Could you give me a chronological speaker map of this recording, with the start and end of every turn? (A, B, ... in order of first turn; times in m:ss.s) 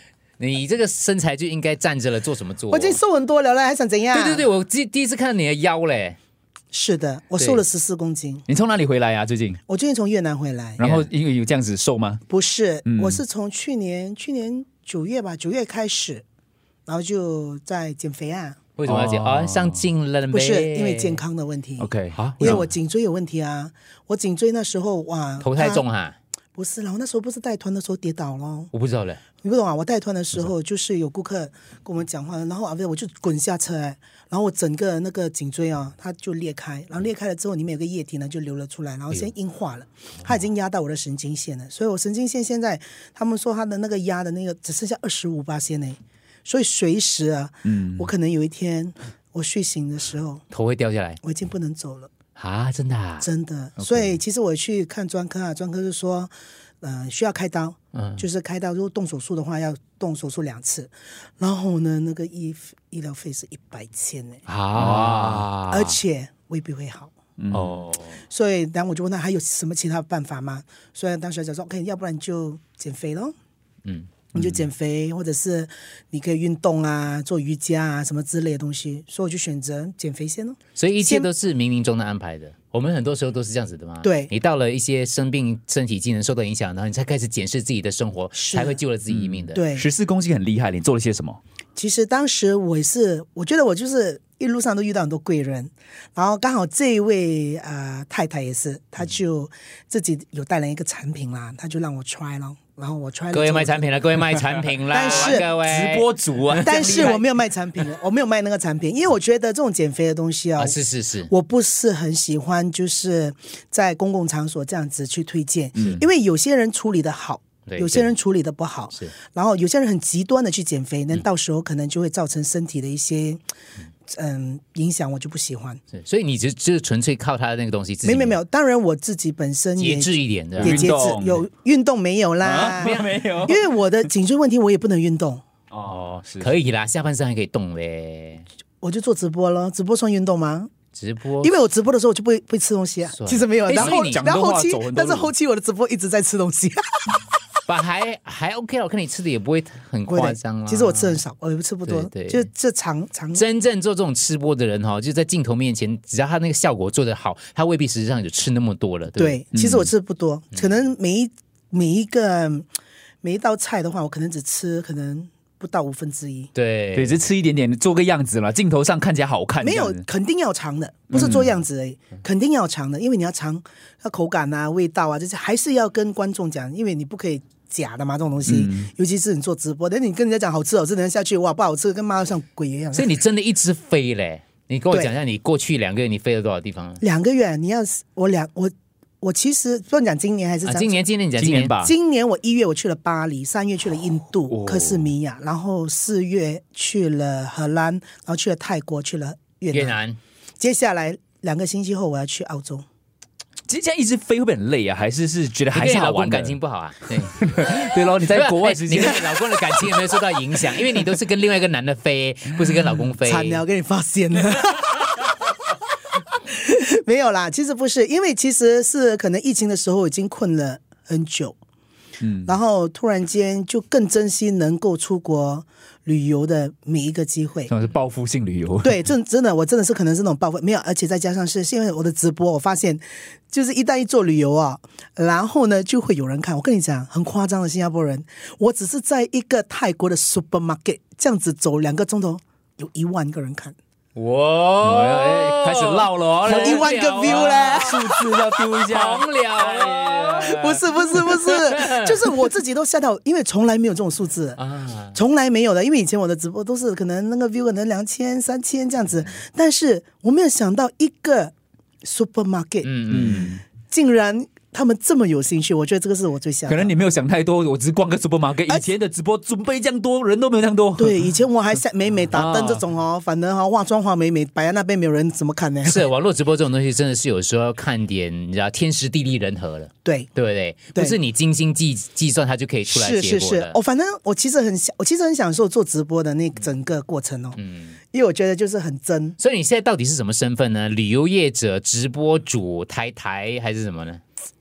0:00.4-0:03.0 A
0:02.7-0:04.5 B
0:04.1-0:06.2 A
0:06.7-0:08.4 B
0:08.5-0:09.6 C
0:09.7-0:10.8 B
0:10.8-0:12.2 C
0:10.8-0:11.1 A
0:12.3-0:16.2 B
0:12.8-0:13.2 C
0:16.9-0:18.6 B
0:18.8-0:21.2 A
0:18.8-0:19.8 C
0:20.3-0:25.8 B
0:21.8-0:22.6 C
0:22.1-0:22.6 A
0:25.4-0:26.2 A
0:26.6-0:28.7 B
0:28.7-0:29.2 A
0:29.4-0:50.4 B
0:47.7-0:48.1 C
0:50.5-0:51.2 A
0:51.2-0:52.1 B
0:52.4-0:53.3 A
0:53.2-1:04.4 B
0:57.9-0:58.2 A
1:04.5-1:06.0 A
1:04.7-1:05.4 C
1:05.7-1:07.1 B
1:07.4-1:07.6 C
1:07.5-1:08.2 A
1:08.3-1:13.3 B
1:13.8-1:14.1 A
1:14.3-1:21.3 B
1:20.7-1:29.6 A
1:24.0-1:24.3 B
1:28.3-1:28.8 B
1:29.1-1:31.4 C
1:29.5-1:29.9 B
1:31.8-1:43.9 B
1:43.3-1:47.1 A
1:44.9-1:45.5 B
1:45.1-1:47.3 C
1:46.6-1:50.8 B
1:50.6-1:51.3 A
1:51.3-2:03.4 B
1:55.8-1:56.0 C
1:57.6-1:58.1 A
2:04.1-2:05.8 B
2:05.9-2:08.4 A
2:08.0-2:15.4 B
2:09.8-2:10.9 A
2:10.6-2:11.4 C
2:12.4-2:13.6 C
2:12.8-2:13.1 A
2:15.7-2:16.5 C
2:15.8-2:18.4 A
2:18.8-2:20.7 B
2:20.9-2:21.6 A
2:21.4-2:27.2 B
2:23.1-2:24.2 A
2:23.7-2:25.3 C
2:27.7-2:31.2 A
2:30.1-2:33.4 B
2:31.8-2:32.5 A
2:33.3-2:39.4 A
2:39.2-2:42.7 B
2:39.5-2:39.9 C
2:40.5-2:40.8 A
2:43.2-2:46.5 B
2:46.5-2:47.2 A
2:46.9-2:50.0 C
2:49.6-3:03.2 B
2:51.1-2:51.4 C
2:58.4-2:58.9 C
3:02.9-3:07.0 A
3:07.0-3:11.0 B
3:10.6-3:11.7 A
3:11.4-3:11.9 C
3:11.8-3:20.0 B
3:14.5-3:15.1 C
3:19.7-3:20.2 A
3:20.6-3:22.8 B
3:23.7-3:26.6 C
3:25.7-3:27.4 A
3:27.3-3:29.4 C
3:28.2-3:33.6 A
3:33.2-3:35.3 B
3:36.5-3:41.6 B
3:42.2-3:42.5 C
3:42.4-3:47.7 B
3:47.7-3:49.0 C
3:48.8-4:03.7 B
4:04.1-4:10.6 A
4:04.8-4:10.8 C
4:06.4-4:08.2 B
4:10.4-4:14.6 B
4:11.2-4:12.1 A
4:14.6-4:15.2 A
4:15.1-4:21.5 B
4:22.0-4:26.9 B
4:22.8-4:23.5 A
4:23.1-4:23.6 C
4:26.7-4:31.2 C
4:31.0-4:36.0 B
4:32.3-4:32.8 C
4:35.8-4:43.8 A
4:40.0-4:40.3 B
4:42.9-4:47.6 B
4:47.6-4:48.0 A
4:48.1-4:49.4 B
4:49.4-4:54.2 A